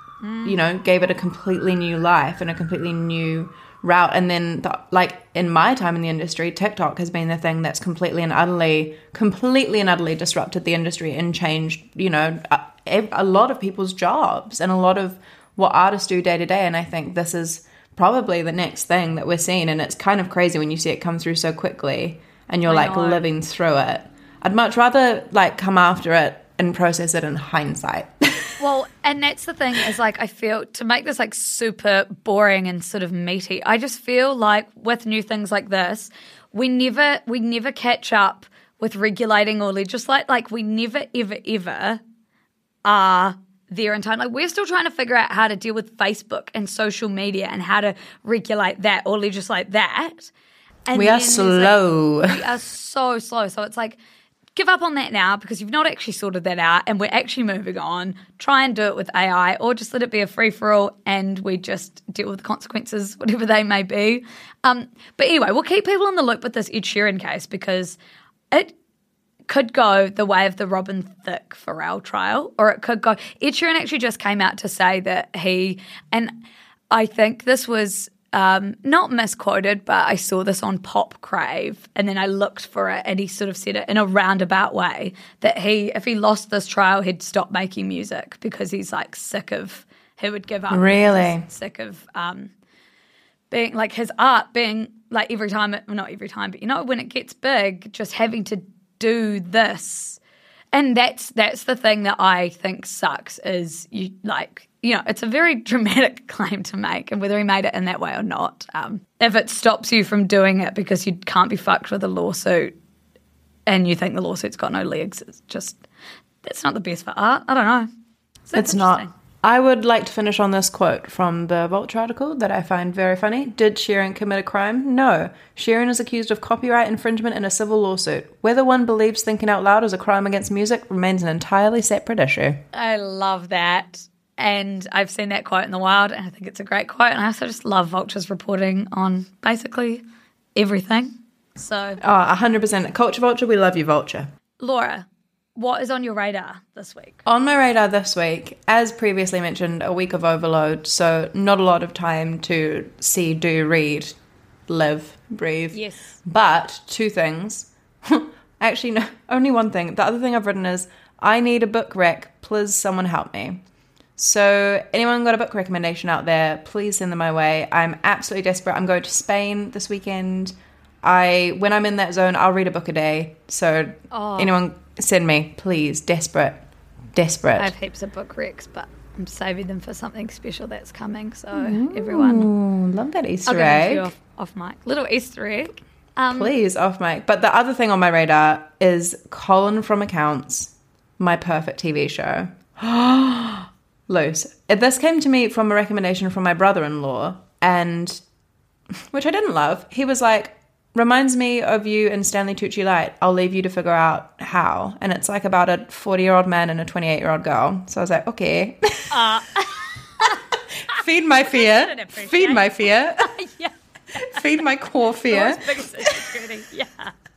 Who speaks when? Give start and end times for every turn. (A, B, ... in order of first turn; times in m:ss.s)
0:00.2-0:00.6 A
0:00.4-0:28.6 B
0:22.6-0:23.2 A
0:28.6-0:42.0 A
0:42.8-0:50.3 A
0:50.9-0:54.0 A
0:50.9-0:52.4 B
0:54.5-1:08.0 A
1:09.5-1:16.3 A
1:16.9-1:32.5 A
1:30.7-1:31.5 B
1:33.5-1:40.2 A
1:40.7-1:52.7 A
1:53.7-1:55.8 A
1:56.4-1:57.9 A
1:58.4-1:59.1 A
1:58.5-2:12.6 B
2:12.7-2:20.0 A
2:20.5-2:22.0 A
2:22.0-2:24.3 B
2:24.6-2:27.2 A
2:27.2-2:34.2 B
2:34.7-2:43.6 B
2:35.7-2:36.2 A
2:44.2-2:57.7 B
2:54.1-2:54.5 A
2:57.6-3:02.5 A
3:01.5-3:04.1 B
3:03.4-3:06.5 A
3:06.3-3:18.2 B
3:19.1-3:29.2 B
3:29.1-3:30.4 A
3:30.2-3:33.3 B
3:31.4-3:34.4 A
3:34.2-3:36.3 B
3:35.3-3:37.1 A